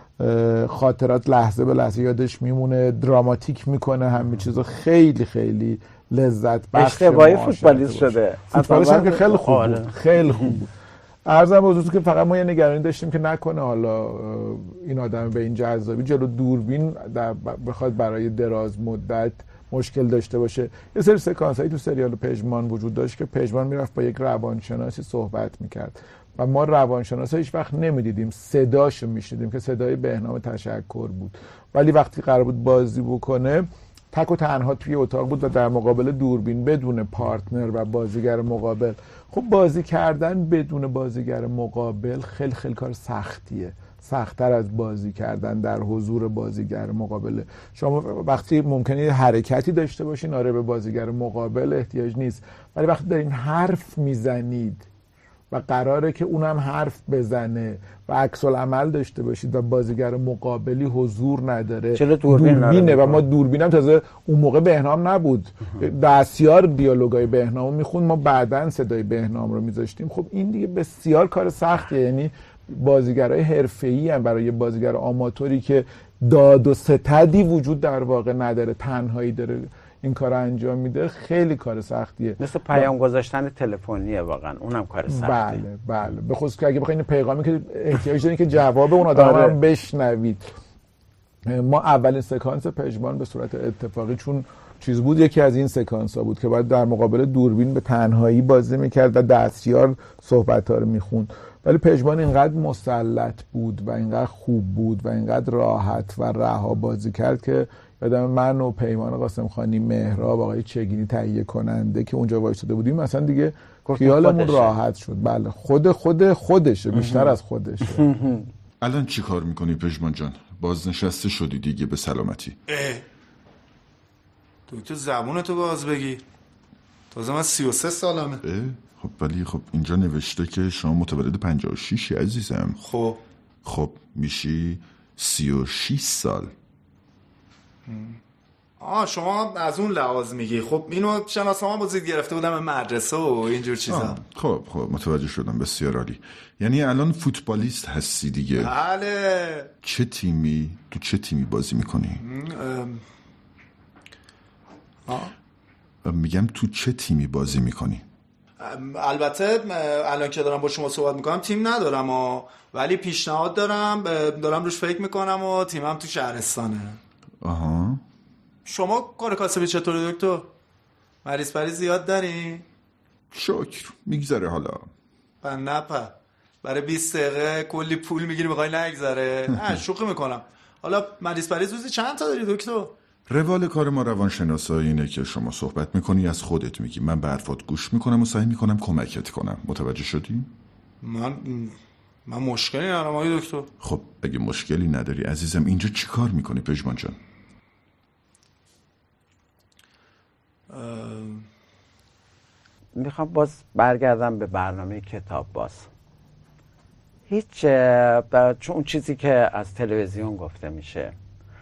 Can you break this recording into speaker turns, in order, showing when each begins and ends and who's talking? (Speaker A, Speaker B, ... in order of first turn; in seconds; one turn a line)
Speaker A: 0.2-10.7
Speaker B: 6.7-10.6
Speaker A: 11.2-54.9
Speaker A: 55.5-82.9
Speaker B: 62.0-63.2
Speaker B: 82.4-85.6
Speaker A: 85.1-90.5
Speaker B: 89.1-89.6
Speaker A: 91.5-118.1
Speaker B: 113.9-114.8
Speaker B: 117.0-117.3
Speaker B: 117.9-118.5
Speaker C: 118.8-122.6
Speaker D: 122.7-123.0
Speaker D: 124.7-126.2
Speaker D: 127.1-128.4
Speaker C: 128.4-132.8
Speaker D: 132.8-133.2
Speaker C: 133.7-136.5
Speaker D: 137.9-138.2
Speaker D: 138.8-144.2
Speaker C: 143.9-148.7
Speaker D: 148.6-149.7
Speaker C: 149.8-152.2
Speaker D: 152.2-153.1
Speaker D: 155.1-155.3
Speaker C: 156.0-158.0
Speaker D: 158.6-167.0
Speaker C: 167.4-168.0
Speaker D: 168.7-170.5
Speaker D: 171.2-172.7
Speaker C: 173.3-174.9
Speaker D: 175.4-182.9
Speaker C: 183.3-190.5
Speaker D: 191.0-193.7
Speaker C: 193.8-197.2
Speaker D: 200.7-201.5
Speaker B: 203.0-205.9
Speaker B: 207.3-211.2